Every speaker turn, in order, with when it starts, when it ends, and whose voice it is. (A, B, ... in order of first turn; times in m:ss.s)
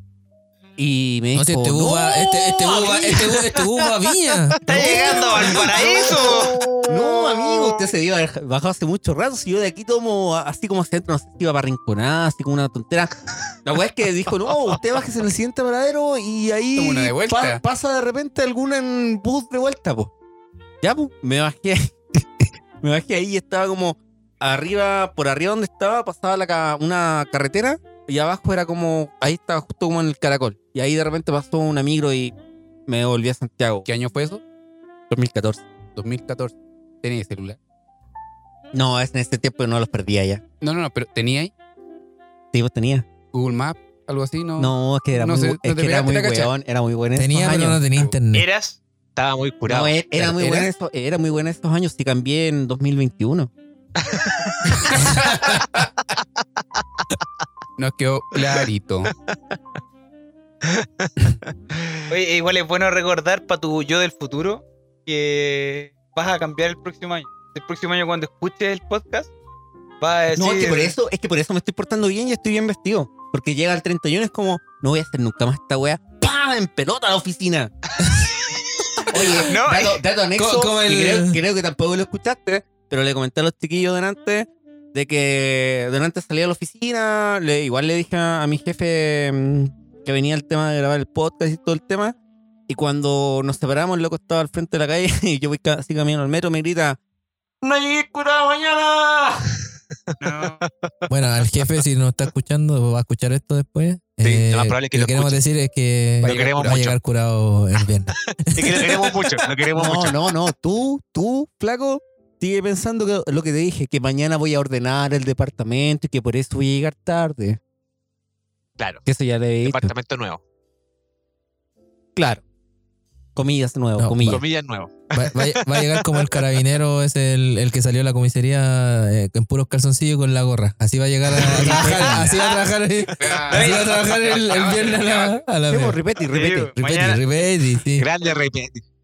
0:00.8-0:03.4 A
0:01.4-0:04.7 B
0:04.6-0:07.8 C
0:04.6-0:06.7 D
0:04.7-0:20.1 A
0:16.8-0:17.6 E
0:20.8-0:32.3 A
0:32.9-0:33.9 A
0:33.8-0:34.4 E
0:35.1-0:35.6 A
0:36.0-0:37.6 E
0:38.7-0:40.4 A
0:40.6-0:41.5 E
0:42.5-0:43.1 A
0:43.3-0:46.5 E
0:44.6-0:47.8 A
0:47.2-0:48.5 B
0:48.3-0:48.8 D
0:49.2-0:50.7 C
0:49.7-0:53.5 A
0:54.1-0:54.8 C
0:57.8-0:59.1 E
1:00.6-1:01.3 C
1:02.1-1:09.3 D
1:10.0-1:11.0 D
1:10.3-1:17.7 A
1:19.0-1:20.0 D
1:19.1-1:32.2 A
1:20.4-1:21.4 B
1:32.7-1:37.0 A
1:37.6-1:39.2 A
1:37.7-1:39.0 C
1:40.2-1:40.6 D
1:40.5-1:40.9 C
1:41.1-1:49.1 B
1:44.2-1:45.4 C
1:46.2-1:46.9 E
1:46.2-1:47.0 C
1:48.2-1:50.3 C
1:49.7-1:57.6 A
1:59.0-1:59.9 A
1:59.6-2:00.4 C
2:02.2-2:02.4 A
2:03.4-2:04.4 A
2:04.0-2:04.4 B
2:04.2-2:06.5 C
2:05.1-2:16.0 B
2:11.4-2:12.7 D
2:11.5-2:12.3 A
2:13.2-2:15.4 E
2:13.5-2:13.8 D
2:15.7-2:16.8 A
2:16.3-2:17.5 D
2:16.8-2:18.1 B
2:18.0-2:18.8 C